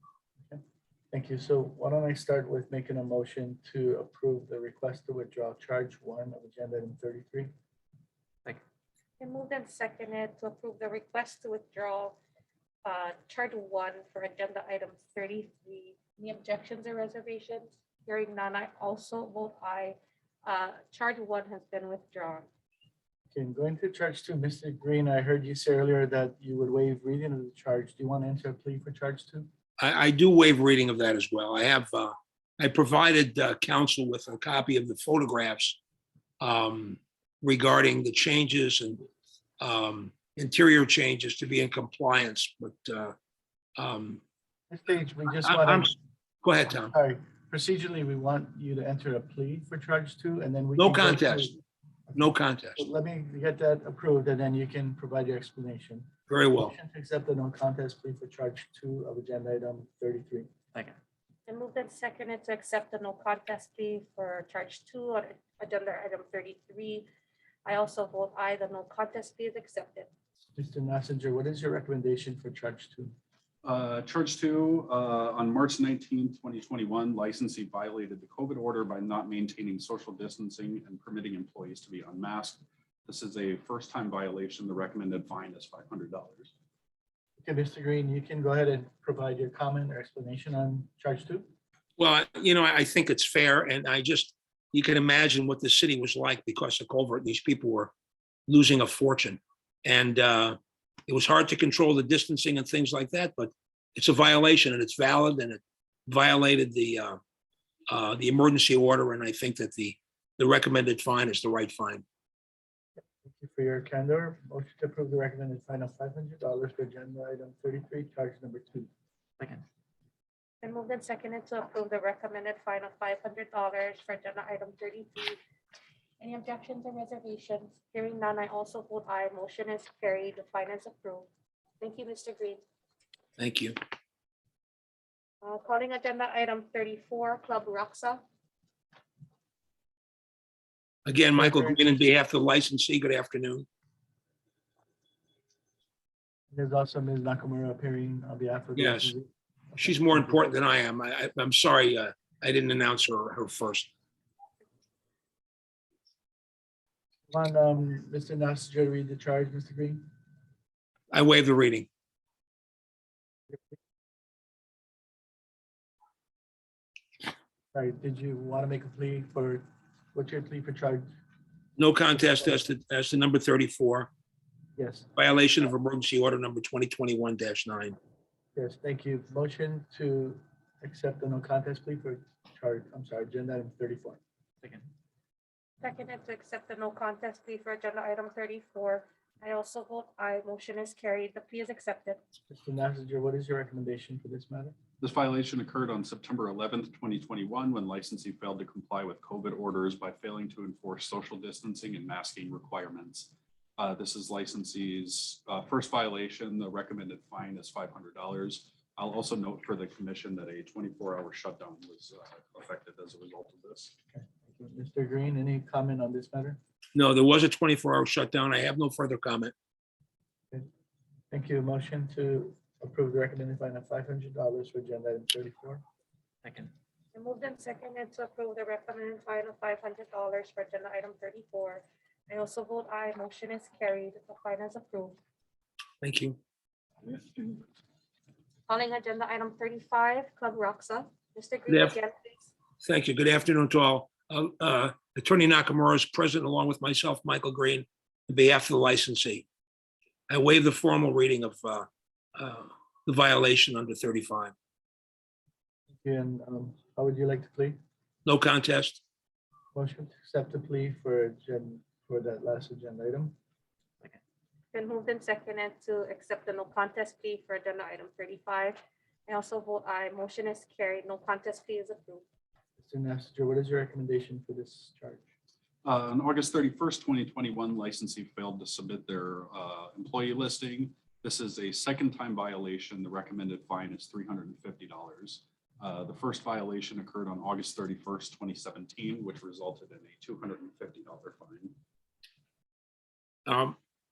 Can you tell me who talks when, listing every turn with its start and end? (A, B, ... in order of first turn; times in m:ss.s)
0:01.1-0:07.5 A
0:09.2-0:12.2 B
0:12.8-0:22.5 B
0:23.3-0:29.5 A
0:29.8-0:35.8 C
0:36.4-0:39.0 C
0:39.6-0:43.2 C
0:43.8-0:44.2 C
0:44.7-0:45.9 A
0:45.4-0:46.9 C
0:46.8-0:51.6 A
0:50.8-0:51.6 C
0:52.1-1:00.5 A
0:52.2-0:52.8 C
0:56.3-0:56.7 C
1:01.5-1:07.1 B
1:07.6-1:10.1 B
1:10.6-1:13.1 A
1:13.6-1:26.5 D
1:27.4-1:31.5 A
1:32.0-1:37.9 C
1:38.5-1:47.2 C
1:47.9-1:52.0 C
1:53.2-1:58.9 A
2:00.6-2:05.4 B
2:06.2-2:11.3 B
2:11.8-2:12.6 B
2:13.4-2:13.8 C
2:15.4-2:18.2 B
2:21.1-2:23.7 C
2:21.4-2:22.0 A
2:26.5-2:30.5 A
2:28.8-2:29.1 C
2:29.8-2:33.9 C
2:37.3-2:40.0 A
2:41.1-2:41.9 C
2:47.7-2:51.1 A
2:51.8-2:54.1 C
2:54.8-2:55.1 A
2:55.2-2:58.0 C
2:58.6-3:04.2 A
3:05.8-3:12.2 B
3:12.5-3:14.8 A
3:15.0-3:34.0 D
3:34.1-3:36.6 A
3:37.0-3:39.5 C
3:41.3-3:45.8 A
3:47.1-3:55.2 B
3:56.0-3:56.4 C
3:57.1-3:57.6 B
3:58.7-4:02.5 B
4:01.7-4:02.0 C
4:02.8-4:09.4 C
4:10.3-4:14.5 C
4:16.0-4:17.8 A
4:18.3-4:19.0 C
4:19.7-4:23.4 A
4:24.7-4:32.2 B
4:32.8-4:35.3 A
4:35.8-4:51.8 D
4:53.5-4:53.8 C